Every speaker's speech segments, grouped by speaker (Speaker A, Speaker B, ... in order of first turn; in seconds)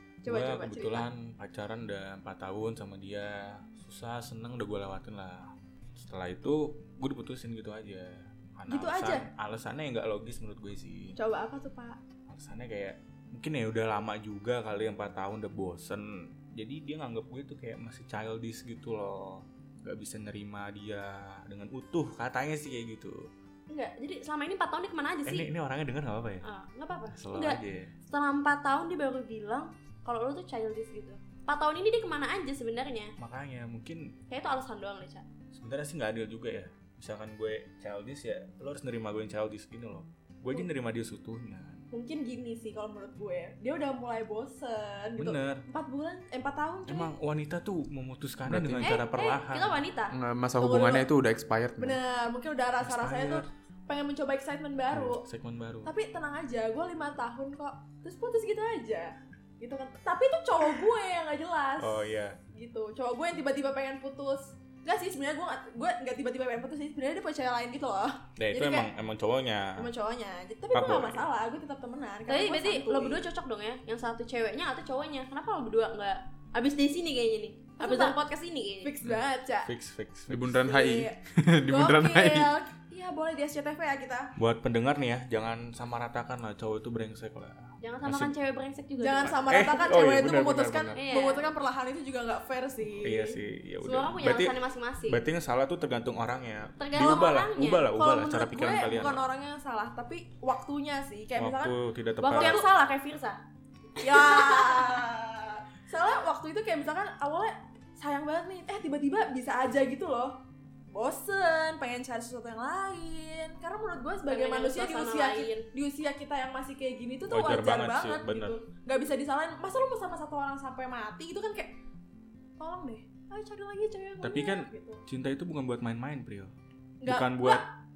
Speaker A: 0.2-1.1, 8.7-9.2, 11.2-12.0, 41.9-47.1, 50.6-51.1, 51.8-55.2, 55.8-68.9, 69.8-73.2, 77.8-78.2, 78.8-79.7, 80.6-81.2, 81.7-84.3, 89.0-93.4, 97.0-97.2, 97.9-101.7, 102.3-102.7, 104.0-110.4, 110.9-121.7, 122.6-125.0, 127.0-127.7
Speaker B: 0.2-11.2, 12.3-23.3, 25.2-26.4, 27.1-27.9, 33.2-34.1, 35.5-41.8, 45.2-45.6, 46.9-49.8, 52.8-53.5, 54.9-55.9, 61.8-62.4, 68.4-69.9, 70.7-71.3, 79.0-80.6, 84.4-88.3, 89.2-91.0, 93.0-94.5, 95.1-99.2, 101.4-102.6, 117.3-118.6, 124.2-126.5, 127.0-127.6
Speaker C: 23.7-25.5, 26.4-33.1, 34.3-35.2, 48.8-50.1, 72.3-78.9, 87.8-89.5, 90.9-91.5, 93.8-95.2, 96.8-97.9, 102.2-103.4, 104.0-104.9, 114.3-115.7
Speaker D: 48.4-49.0, 50.1-52.0, 80.3-82.5